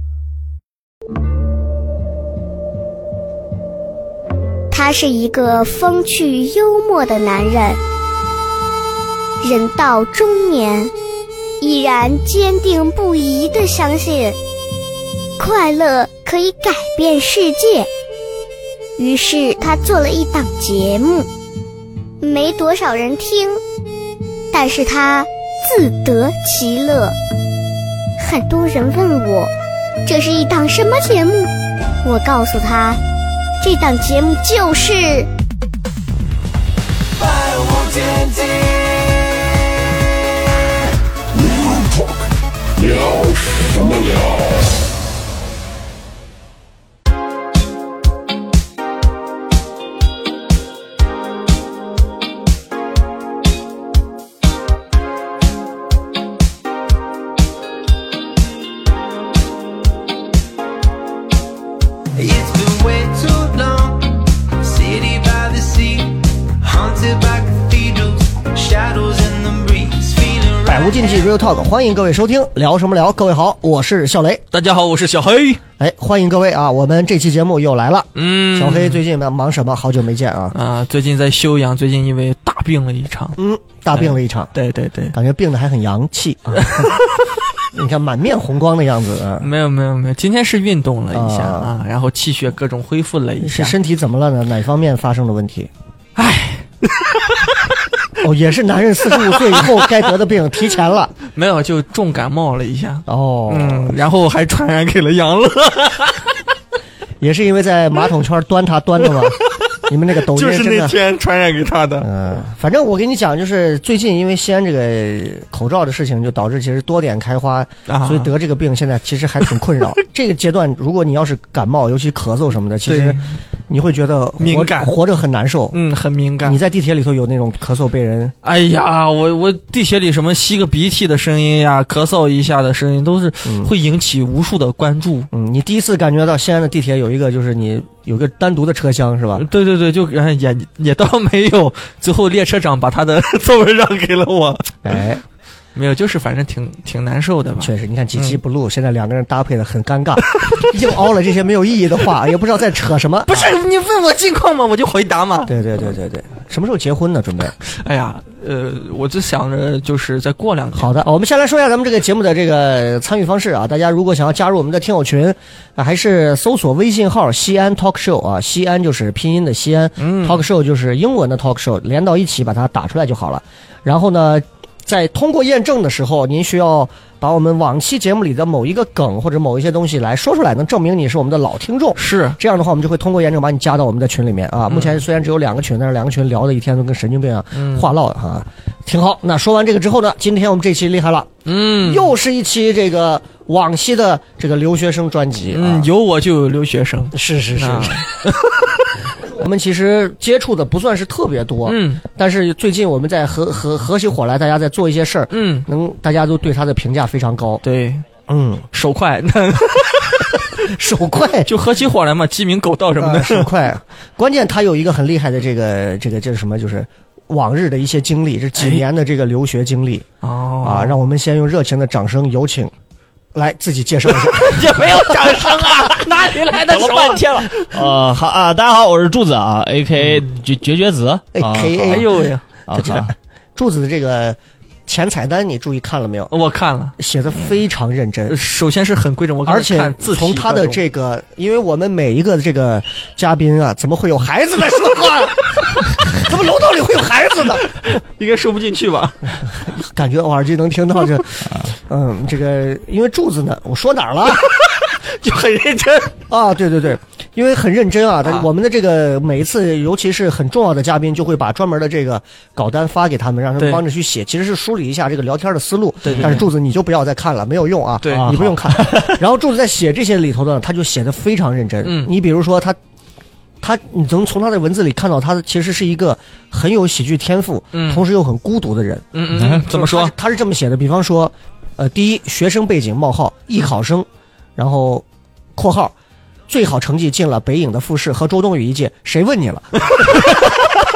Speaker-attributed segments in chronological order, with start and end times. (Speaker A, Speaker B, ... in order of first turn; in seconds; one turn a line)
Speaker A: 4.7-7.8
Speaker A: 9.4-10.9
Speaker A: 11.6-14.4
Speaker A: 15.4-17.9
Speaker A: 19.0-21.3
Speaker A: 22.2-23.6
Speaker A: 24.5-27.1
Speaker A: 28.2-29.5
Speaker A: 30.1-31.5
Speaker A: 32.0-33.0
Speaker A: 33.6-35.3
Speaker B: 37.2-39.3
Speaker B: 42.8-44.3
Speaker B: 62.1-71.3
Speaker C: 70.7-74.4
Speaker D: 74.5-75.6
Speaker C: 75.8-80.6
Speaker D: 78.2-79.0
Speaker D: 80.5-83.4
Speaker C: 83.4-84.5
Speaker D: 83.9-85.2
Speaker C: 85.1-86.9
Speaker D: 86.6-87.0
Speaker C: 87.7-89.5
Speaker D: 89.4-93.8
Speaker C: 91.1-91.7
Speaker C: 93.4-95.7
Speaker D: 96.2-97.6
Speaker C: 98.2-101.1
Speaker D: 99.1-100.0
Speaker D: 101.3-106.3
Speaker C: 103.1-104.0
Speaker C: 107.2-111.0
Speaker D: 110.2-112.1
Speaker C: 112.0-125.8
Speaker D: 117.9-118.3
Speaker D: 122.9-123.3
Speaker D: 124.4-125.0
Speaker D: 125.7-126.6
Speaker C: 126.4-128.3
Speaker D: 128.4-135.3
Speaker C: 133.4-133.7
Speaker C: 135.3-139.5
Speaker D: 139.3-145.0
Speaker C: 144.8-145.2
Speaker D: 145.8-148.4
Speaker C: 147.6-153.5
Speaker D: 150.4-150.7
Speaker D: 153.3-155.6
Speaker C: 155.5-157.6
Speaker D: 157.6-160.9
Speaker C: 160.8-195.9
Speaker D: 170.0-170.4
Speaker D: 182.0-182.4
Speaker D: 184.7-185.0
Speaker D: 187.5-187.9
Speaker D: 191.5-192.1
Speaker D: 195.5-198.9
Speaker C: 197.1-198.0
Speaker C: 199.2-207.6
Speaker D: 201.7-202.0
Speaker D: 205.3-205.7
Speaker D: 207.6-208.1
Speaker C: 208.3-208.7
Speaker D: 208.7-210.7
Speaker C: 210.6-211.5
Speaker D: 211.4-213.5
Speaker C: 213.0-220.1
Speaker D: 218.6-218.8
Speaker D: 220.2-221.0
Speaker C: 220.6-222.7
Speaker C: 223.3-225.3
Speaker D: 224.1-227.9
Speaker E: 225.9-232.1
Speaker C: 231.3-232.1
Speaker D: 231.7-232.4
Speaker E: 232.7-233.1
Speaker C: 232.7-236.3
Speaker D: 236.3-237.0
Speaker C: 237.0-238.4
Speaker D: 238.3-240.8
Speaker C: 239.5-247.7
Speaker D: 247.8-249.3
Speaker C: 249.5-254.5
Speaker D: 254.4-256.2
Speaker C: 256.3-272.8
Speaker D: 266.1-266.5
Speaker E: 266.1-266.4
Speaker D: 268.0-268.4
Speaker E: 268.1-269.2
Speaker D: 271.9-272.1
Speaker C: 273.6-285.1
Speaker D: 277.7-278.0
Speaker D: 279.1-280.1
Speaker E: 279.4-279.6
Speaker C: 285.6-285.9
Speaker C: 286.5-290.2
Speaker D: 289.9-290.7